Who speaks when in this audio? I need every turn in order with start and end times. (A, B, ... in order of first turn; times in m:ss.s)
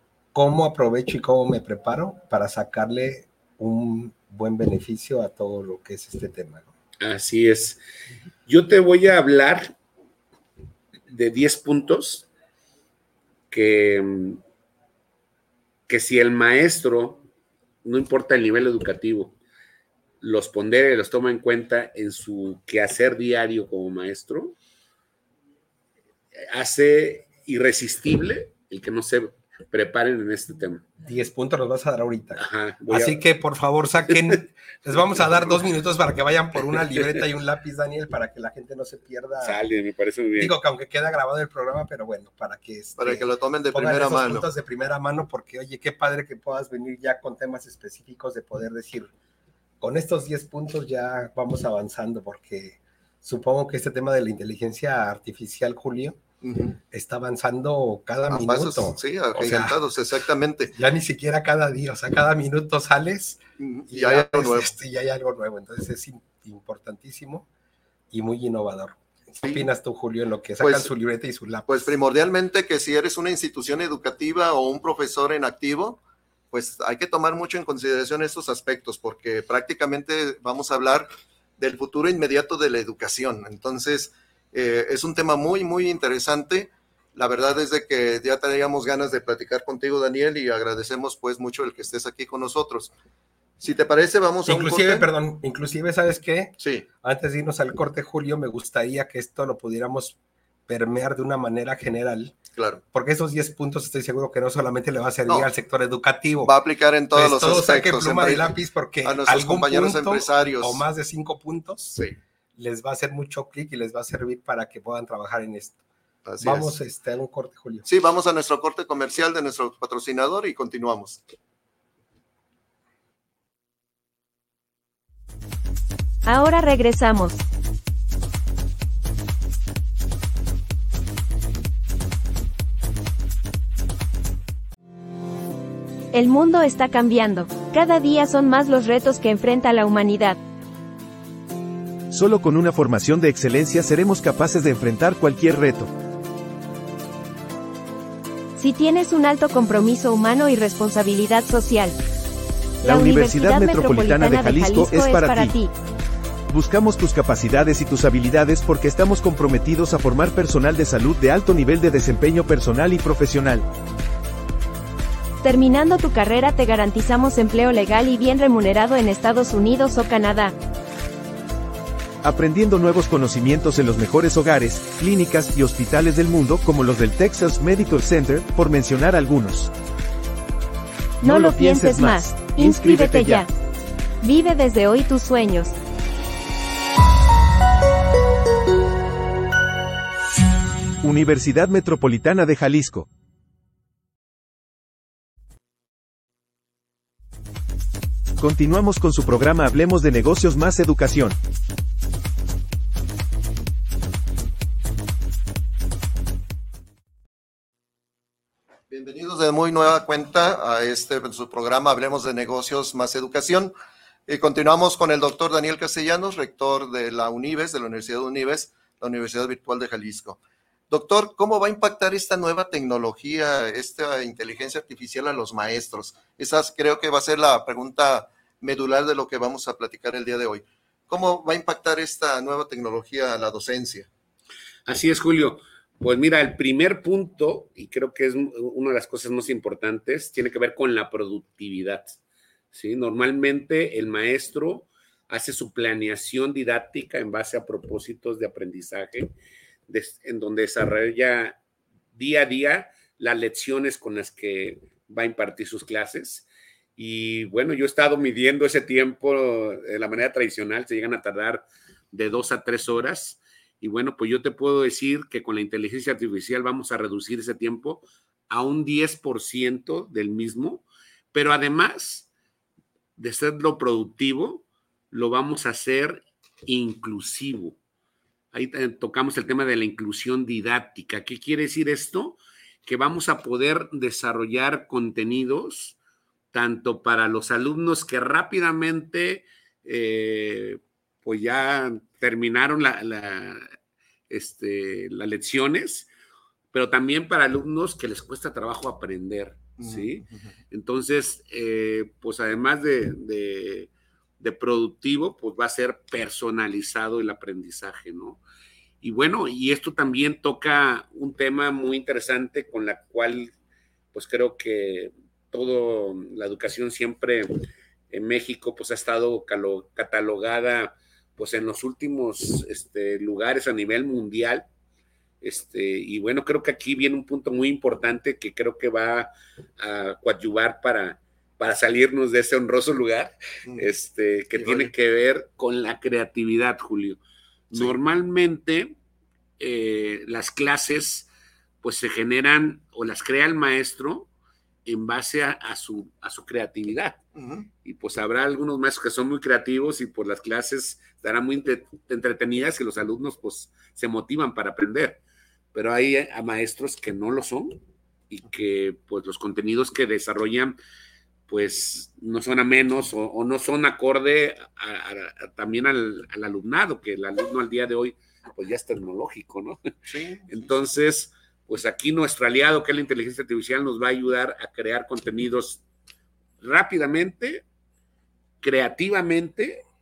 0:00.3-0:06.7 A
0:07.0-0:07.8 B
0:08.5-0:09.7 B
0:11.1-0:12.3 B
0:13.5-0:14.4 B
0:15.9-0:17.2 B
0:17.8-0:19.4 B
0:20.2-0:24.6 B
0:26.4-0:30.9 B
0:31.0-0:39.6 A
0:32.4-0:33.2 B
0:39.4-0:40.6 B
0:40.4-0:49.1 A
0:43.0-0:44.5 C
0:49.8-0:56.2 A
0:56.4-0:56.8 C
0:56.9-0:59.8 A
0:58.3-1:00.7 C
1:00.7-1:07.5 A
1:03.6-1:04.7 C
1:08.1-1:11.8 A
1:10.6-1:10.9 C
1:11.7-1:16.0 C
1:16.5-1:32.9 C
1:33.6-1:35.1 C
1:34.5-1:40.2 A
1:36.6-1:36.9 C
1:40.7-1:42.4 A
1:42.6-1:42.8 C
1:42.9-1:46.5 A
1:46.4-1:50.8 C
1:47.1-1:52.0 A
1:52.6-1:55.8 A
1:56.3-1:56.7 C
1:56.4-1:57.8 A
1:57.8-2:01.2 C
2:06.2-2:07.4 D
2:16.1-2:20.4 D
2:22.1-2:25.9 E
2:28.6-2:32.0 D
2:32.8-2:35.6 E
2:32.8-2:35.7 D
2:36.5-2:43.7 E
2:45.4-2:50.5 D
2:52.2-2:59.7 E
3:01.2-3:03.5 E
3:01.2-3:03.5 D
3:04.2-3:05.7 D
3:11.0-3:13.1 E
3:18.4-3:21.4 E
3:28.9-3:33.7 C
3:34.3-3:40.4 C
3:40.9-3:54.1 C
3:54.9-4:02.2 B
4:02.7-4:09.3 B
4:09.9-4:11.6 B
4:12.2-4:16.5 B
4:17.0-4:32.3 B
4:33.2-4:37.8 B
4:38.5-4:46.0 B
4:46.5-4:53.7 B
4:54.3-4:56.1 B
4:56.7-5:08.4 B
4:59.8-5:00.5 C
5:09.0-5:13.5 B
5:14.1-5:17.6 B
5:18.1-5:24.7 B
5:25.4-5:38.9 B
5:34.6-5:34.9 C
5:39.6-5:41.3 B
5:41.8-5:44.3 B
5:44.9-5:47.2 B
5:47.4-5:47.7 C
5:47.8-5:55.2 B
5:55.7-6:00.8 B
6:01.5-6:09.8 B
6:10.1-6:10.7 C
6:10.5-6:15.8 B
6:16.6-6:17.6 B
6:18.6-6:19.8 B